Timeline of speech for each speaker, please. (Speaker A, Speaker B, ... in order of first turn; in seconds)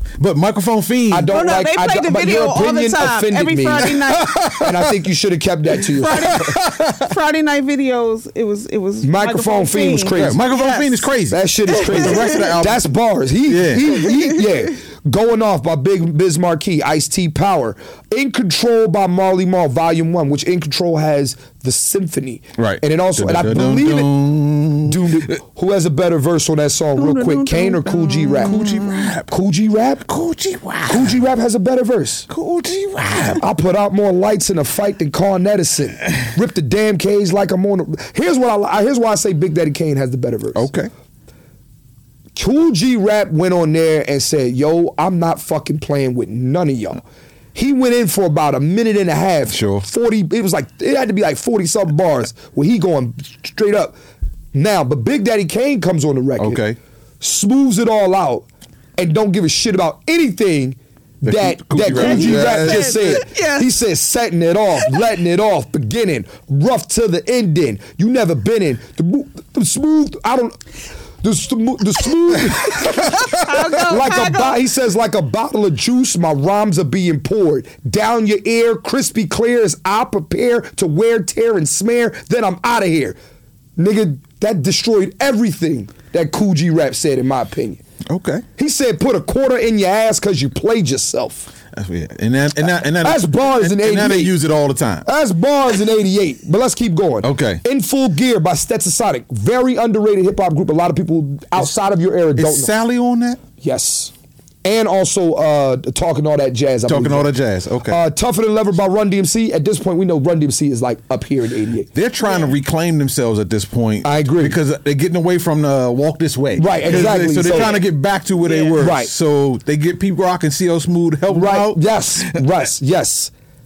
Speaker A: 0.2-1.3, 4.1-5.0, 6.2-7.1, 10.1-12.9, 13.5-14.1, 22.6-25.2, 28.4-29.3, 30.1-31.2, 32.3-33.4, 40.5-40.9, 49.5-49.9, 56.4-56.8, 61.2-63.2, 88.1-88.4, 91.7-95.0, 97.2-97.6, 102.4-103.4, 106.8-108.0, 111.9-122.4
Speaker B: 1.1-6.6, 9.0-10.4, 11.3-24.1, 24.8-28.6, 29.3-30.1, 30.9-32.3, 33.3-40.7, 42.3-47.0, 47.5-54.0, 54.5-56.6, 57.2-58.5, 59.0-70.6, 71.2-83.2, 83.8-87.8, 88.5-91.5, 93.0-94.4, 95.0-102.7, 103.6-104.1, 104.6-107.3, 107.8-111.9, 114.0-114.6, 116.5-117.8, 118.8-119.1, 121.3-123.3
Speaker C: 1.3-4.5, 6.0-11.1, 11.7-12.4, 27.0-29.1, 61.9-63.7, 72.8-74.6, 112.2-112.5, 116.9-117.8, 118.4-118.8